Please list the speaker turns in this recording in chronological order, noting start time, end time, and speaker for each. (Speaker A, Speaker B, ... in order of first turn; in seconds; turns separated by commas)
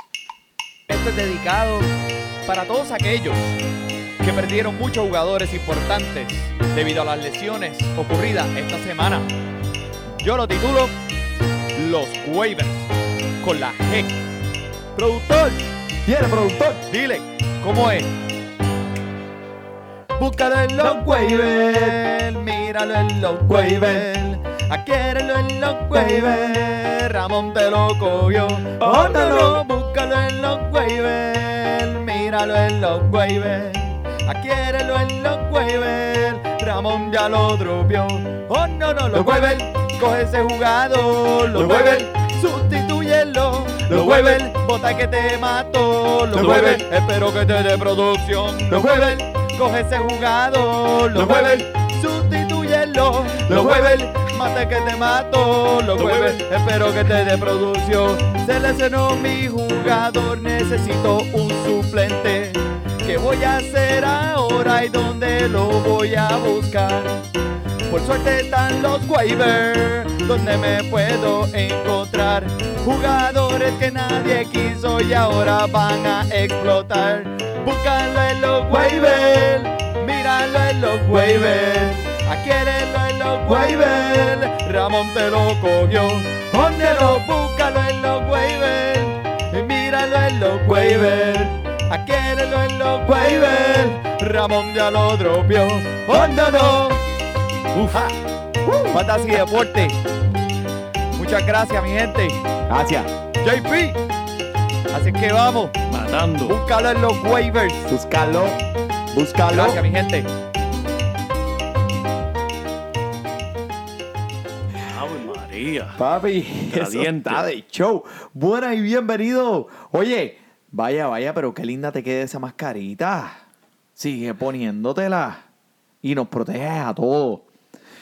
Speaker A: 0.9-1.9, Speaker A: 2.5-3.5, Speaker A: 4.2-9.2, Speaker A: 10.2-10.9, Speaker A: 11.8-12.9, Speaker A: 13.4-14.2, Speaker A: 15.0-18.1, Speaker B: 16.1-16.6, Speaker A: 20.2-67.2, Speaker B: 20.8-22.0, Speaker B: 23.5-24.1, Speaker B: 25.9-26.6, Speaker B: 28.8-29.6, Speaker B: 39.1-39.6, Speaker B: 41.5-42.1, Speaker B: 43.9-44.5, Speaker B: 46.3-46.8, Speaker B: 48.7-49.2, Speaker B: 51.1-51.7, Speaker B: 53.4-54.4, Speaker B: 56.0-56.4, Speaker A: 67.9-97.0, Speaker B: 78.7-79.5, Speaker B: 81.1-81.5, Speaker B: 83.5-84.1, Speaker B: 90.7-91.4, Speaker B: 93.1-93.8, Speaker B: 96.1-96.9, Speaker A: 97.8-98.1, Speaker B: 98.7-99.0, Speaker A: 98.9-100.0, Speaker A: 101.2-102.4, Speaker B: 102.7-103.1, Speaker A: 103.4-104.0, Speaker A: 104.9-105.8, Speaker C: 105.9-106.6, Speaker A: 106.5-107.9, Speaker B: 107.9-108.6, Speaker B: 109.1-109.8, Speaker A: 109.5-110.3, Speaker C: 114.8-116.0, Speaker B: 116.0-123.4, Speaker C: 116.7-117.5, Speaker B: 124.0-125.5, Speaker B: 126.0-127.5